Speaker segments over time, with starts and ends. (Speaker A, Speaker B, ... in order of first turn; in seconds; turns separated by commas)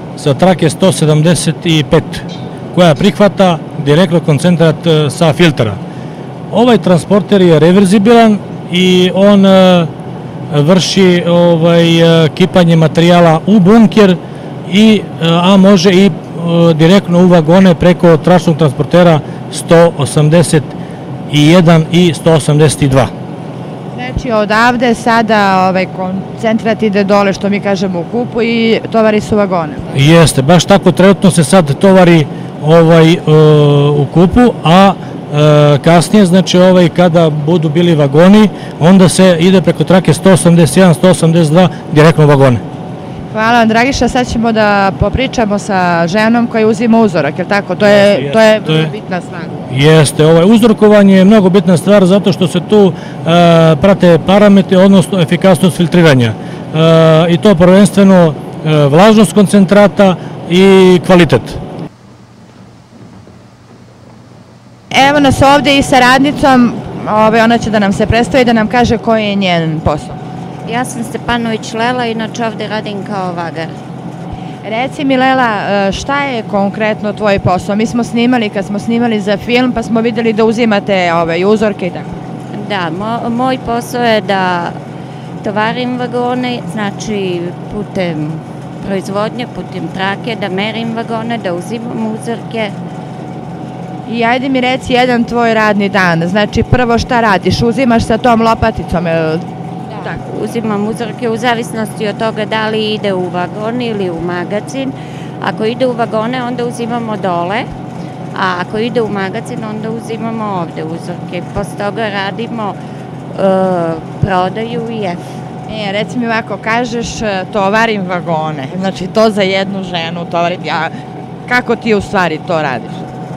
Speaker A: 0.1-5.8, Speaker A: 6.5-9.9, Speaker A: 10.5-20.8, Speaker A: 21.3-23.1, Speaker B: 23.9-29.9, Speaker A: 29.9-42.6, Speaker B: 43.3-49.7, Speaker A: 47.8-48.9, Speaker A: 49.7-61.6, Speaker B: 64.9-70.2, Speaker C: 70.7-73.8, Speaker B: 74.6-82.1, Speaker C: 82.5-84.8, Speaker C: 85.4-92.7, Speaker B: 94.0-100.2, Speaker C: 99.9-107.7, Speaker C: 108.3-112.8, Speaker C: 113.3-115.2, Speaker B: 115.7-120.9, Speaker B: 121.5-123.1